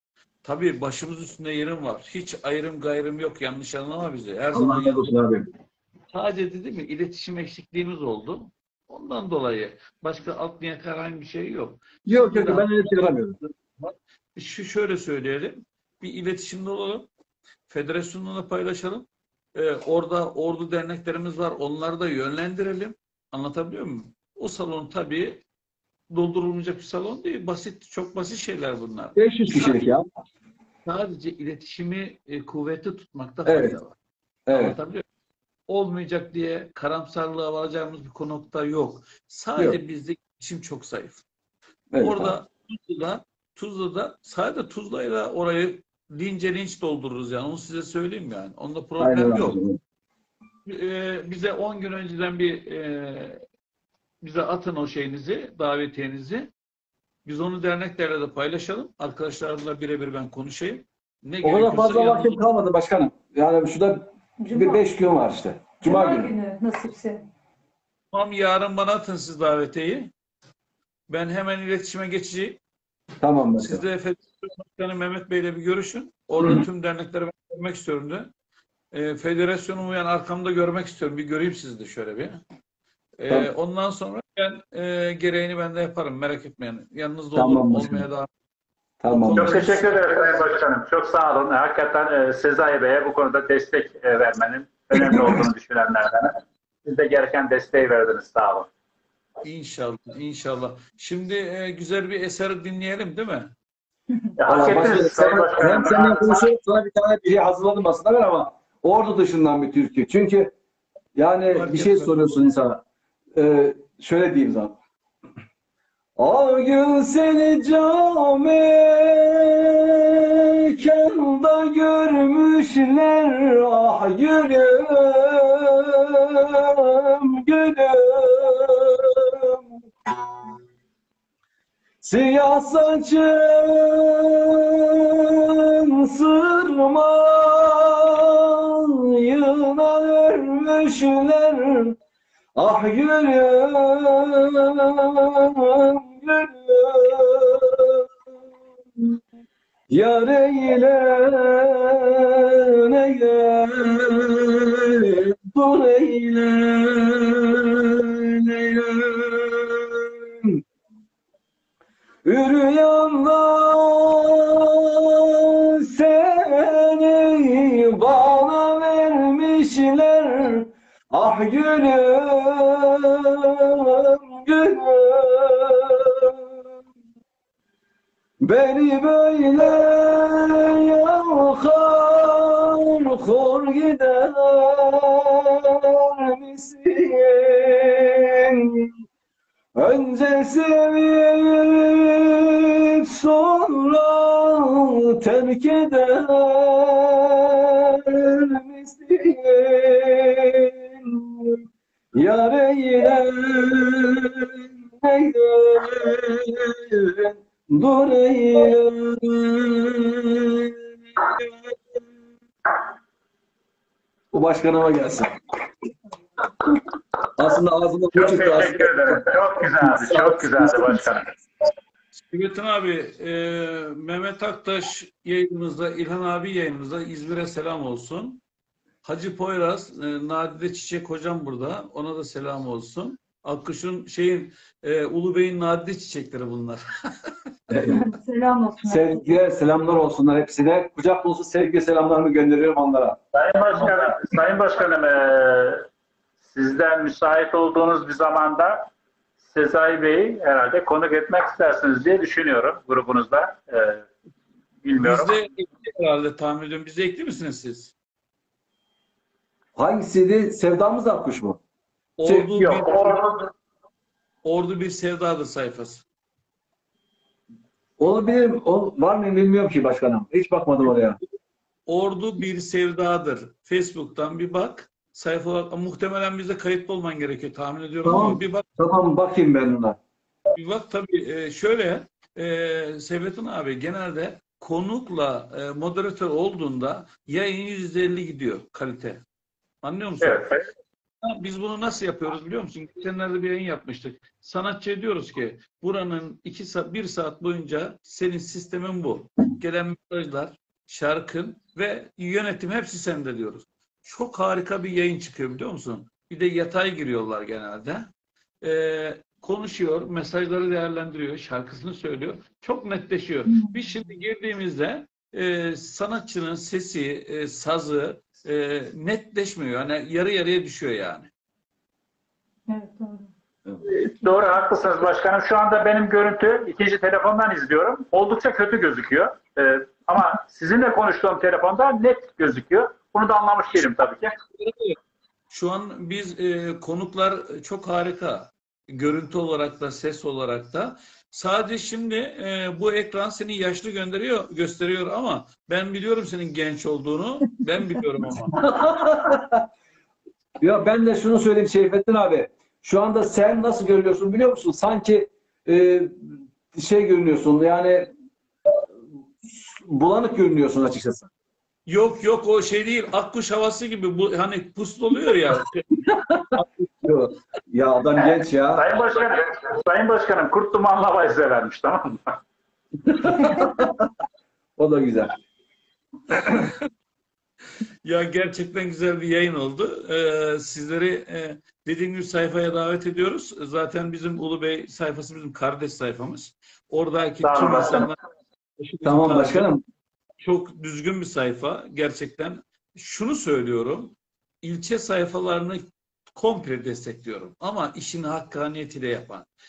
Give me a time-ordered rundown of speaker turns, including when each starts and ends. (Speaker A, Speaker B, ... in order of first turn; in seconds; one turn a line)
Speaker A: 0.4-5.2
Speaker B: 4.5-5.5
Speaker A: 6.1-17.1
Speaker B: 12.1-13.4
Speaker A: 17.7-25.4
Speaker A: 26.1-29.9
Speaker B: 29.2-30.0
Speaker A: 30.9-34.0
Speaker B: 33.5-33.8
Speaker B: 34.5-34.8
Speaker A: 34.5-35.0
Speaker A: 35.7-41.2
Speaker B: 41.9-42.4
Speaker A: 42.0-49.6
Speaker B: 49.0-49.8
Speaker A: 50.7-53.4
Speaker A: 54.2-56.5
Speaker A: 57.2-62.4
Speaker B: 61.4-66.3
Speaker C: 64.4-64.8
Speaker C: 65.8-67.3
Speaker A: 68.1-70.1
Speaker A: 71.1-72.6
Speaker B: 73.2-73.8
Speaker A: 73.6-78.3
Speaker B: 76.4-76.7
Speaker A: 78.9-82.4
Speaker A: 83.2-88.3
Speaker B: 87.3-88.1
Speaker B: 89.0-89.6
Speaker A: 89.1-89.9
Speaker D: 89.3-98.7
Speaker B: 94.9-95.4
Speaker A: 99.4-103.5
Speaker D: 104.4-106.5
Speaker B: 104.5-110.5
Speaker B: 111.2-112.8
Speaker A: 111.5-112.3
Speaker B: 113.3-114.8
Speaker B: 116.2-129.6
Speaker B: 132.0-142.0
Speaker B: 142.6-148.0
Speaker B: 149.9-160.6
Speaker B: 162.2-176.4
Speaker B: 178.4-188.9
Speaker B: 189.8-201.6
Speaker B: 202.1-211.5
Speaker B: 214.3-215.4
Speaker B: 217.4-221.1
Speaker D: 218.2-221.3
Speaker A: 222.2-228.4
Speaker A: 229.0-237.3
Speaker B: 237.7-238.1
Speaker C: 237.9-239.3
Speaker B: 238.8-243.2
Speaker D: 243.3-245.9
Speaker D: 246.4-248.9
Speaker D: 249.4-254.1
Speaker D: 254.8-255.4
Speaker A: 255.0-257.9
Speaker B: 259.8-261.6
Speaker A: 262.2-263.2
Speaker D: 262.5-263.5
Speaker A: 264.4-266.0
Speaker B: 268.0-271.2
Speaker A: 271.9-278.7
Speaker B: 278.0-280.0
Speaker A: 280.6-289.2
Speaker A: 289.8-290.6
Speaker D: 290.2-290.6
Speaker A: 291.2-308.1
Speaker A: 308.6-321.3
Speaker C: 313.5-313.9
Speaker C: 322.7-323.3
Speaker D: 323.9-334.3
Speaker A: 335.5-348.6
Speaker B: 348.5-349.6
Speaker B: 350.6-356.2
Speaker B: 356.7-358.1
Speaker B: 359.5-361.3
Speaker A: 361.9-365.9
Speaker B: 366.1-368.9
Speaker D: 368.2-372.4
Speaker B: 373.1-374.0
Speaker B: 374.8-375.3
Speaker A: 378.0-388.2
Speaker D: 387.4-388.1
Speaker A: 388.8-389.7
Speaker B: 389.0-389.8
Speaker A: 390.4-399.5